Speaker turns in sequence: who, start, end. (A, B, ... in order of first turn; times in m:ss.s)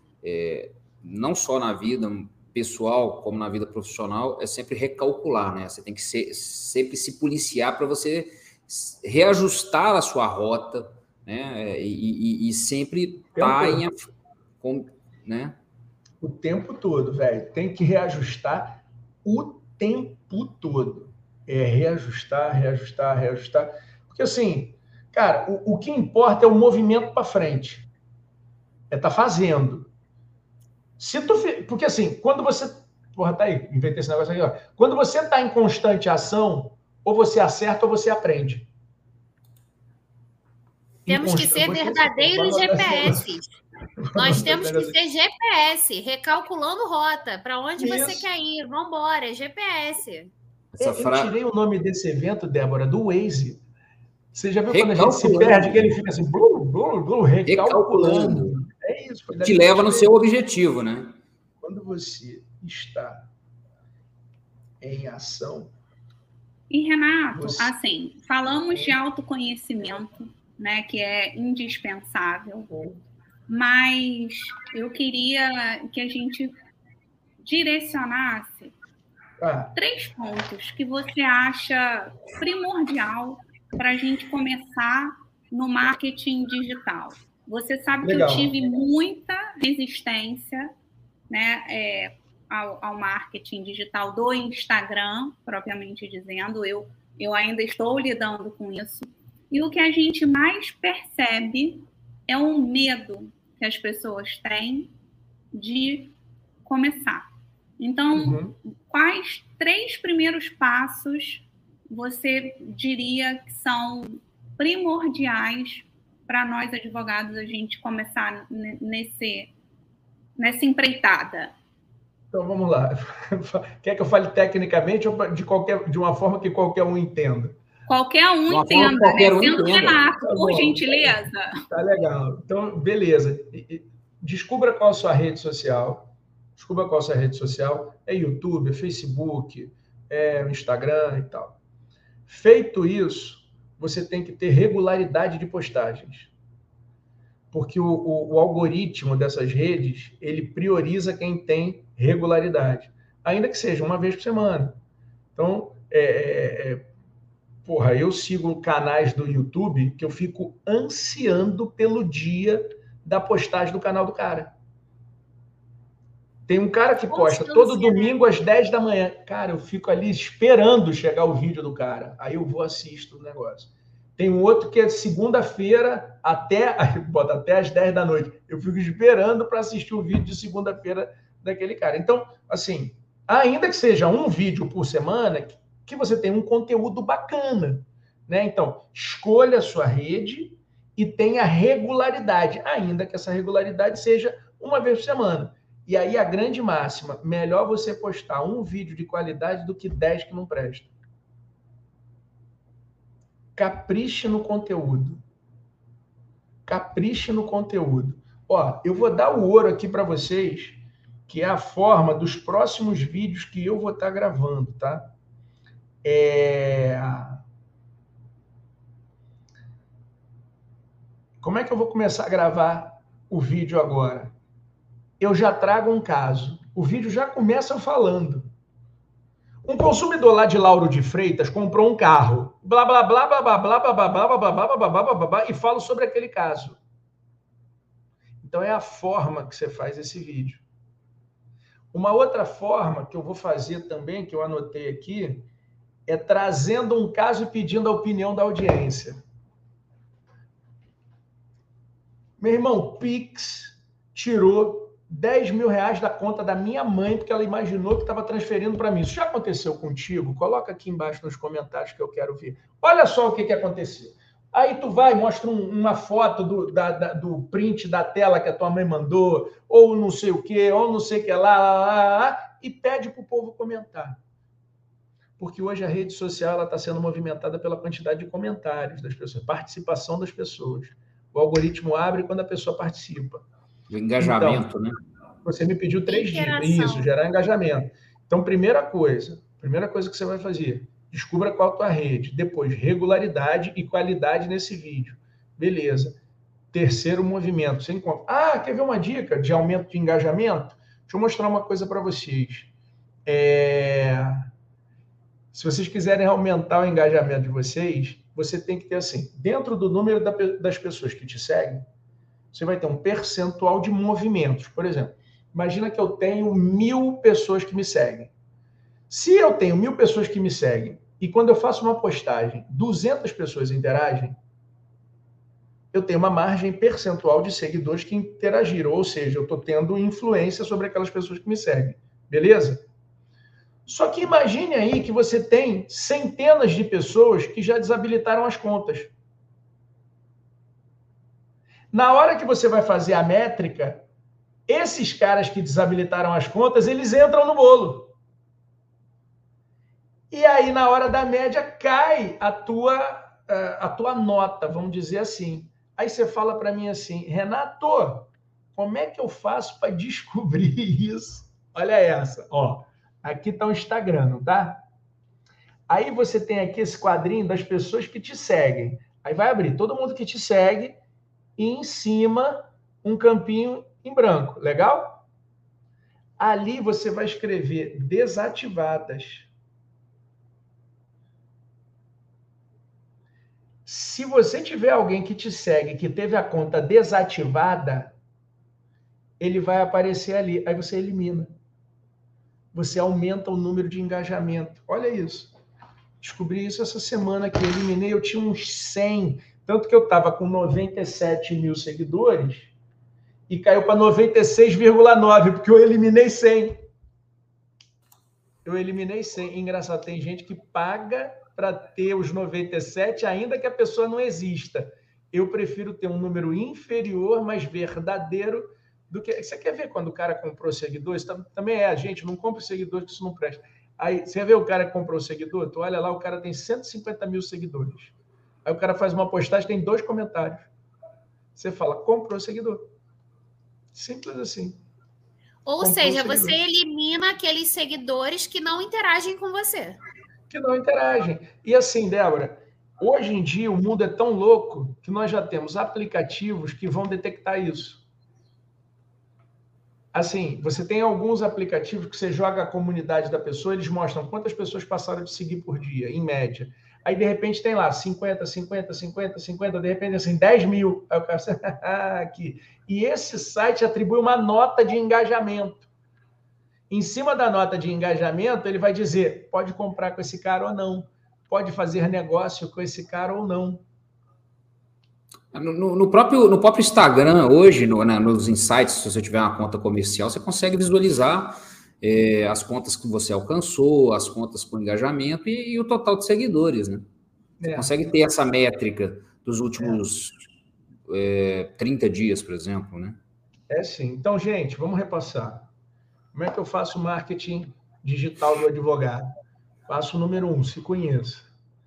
0:00.2-0:15.6 A
0:13.4-0:13.8 B
0:16.2-0:27.9 B
0:28.9-0:29.9 B
0:31.0-0:38.7 B
0:41.1-0:43.3 B
0:41.1-0:43.5 C
0:44.0-0:45.0 B
0:44.1-0:50.3 C
0:47.8-0:48.3 B
0:50.7-0:51.3 A
0:50.8-0:53.6 B
0:54.3-1:00.1 B
0:54.7-0:55.9 A
0:57.5-0:58.6 A
0:59.4-1:01.1 A
1:01.6-1:03.3 B
1:04.8-1:05.7 B
1:06.7-1:12.7 D
1:07.3-1:07.7 B
1:08.5-1:09.0 B
1:12.7-1:13.0 B
1:13.5-1:16.5 D
1:17.4-1:18.7 D
1:19.4-1:19.8 B
1:19.8-1:30.7 D
1:28.0-1:28.5 B
1:31.3-1:44.9 D
1:45.5-1:46.1 D
1:46.6-1:47.3 D
1:47.8-1:59.5 D
1:48.2-1:48.6 B
2:00.4-2:01.5 D
2:02.3-2:07.6 B
2:07.9-2:11.6 D
2:08.5-2:10.1 A
2:10.1-2:21.6 B
2:22.3-2:26.3 B
2:27.5-2:34.8 B
2:35.4-2:36.9 B
2:37.6-2:44.6 B
2:46.5-3:20.9 B
2:47.1-2:48.2 C
3:23.6-3:25.2 B
3:26.7-3:35.1 B
3:36.0-3:37.4 B
3:41.4-3:44.4 B
3:45.2-3:48.5 B
3:49.6-3:56.8 B
3:58.4-4:00.6 B
4:01.9-4:05.5 B
4:06.1-4:09.2 B
4:12.4-4:34.2 B
4:35.4-4:43.4 B
4:43.9-4:45.0 A
4:44.2-4:44.7 B
4:45.4-4:56.2 B
4:46.1-4:47.1 C
4:56.7-5:02.7 B
5:03.3-5:04.5 B
5:05.5-5:11.9 B
5:12.5-5:18.3 B
5:19.1-5:24.4 B
5:25.9-5:32.8 B
5:33.9-5:39.1 B
5:41.9-5:44.0 B
5:44.7-5:48.1 B
5:50.3-6:04.8 B
6:05.9-6:11.0 B
6:11.6-6:15.2 B
6:16.4-6:19.5 B
6:23.9-6:28.2 B
6:29.4-6:31.5 B
6:32.7-6:35.5 B
6:36.2-6:42.7 B
6:43.5-6:46.8 B
6:48.6-7:10.7 B
7:11.6-7:12.9 B
7:13.9-7:14.8 B
7:15.7-7:20.0 C
7:15.8-7:16.6 B
7:20.5-7:28.0 B
7:30.1-7:45.9 B
7:46.9-7:53.8 B
7:55.5-8:07.0 A
8:07.6-8:07.9 B
8:07.7-8:10.4 A
8:11.1-8:13.2 A
8:13.7-8:15.7 B
8:16.3-8:19.4 B
8:19.9-8:21.5 B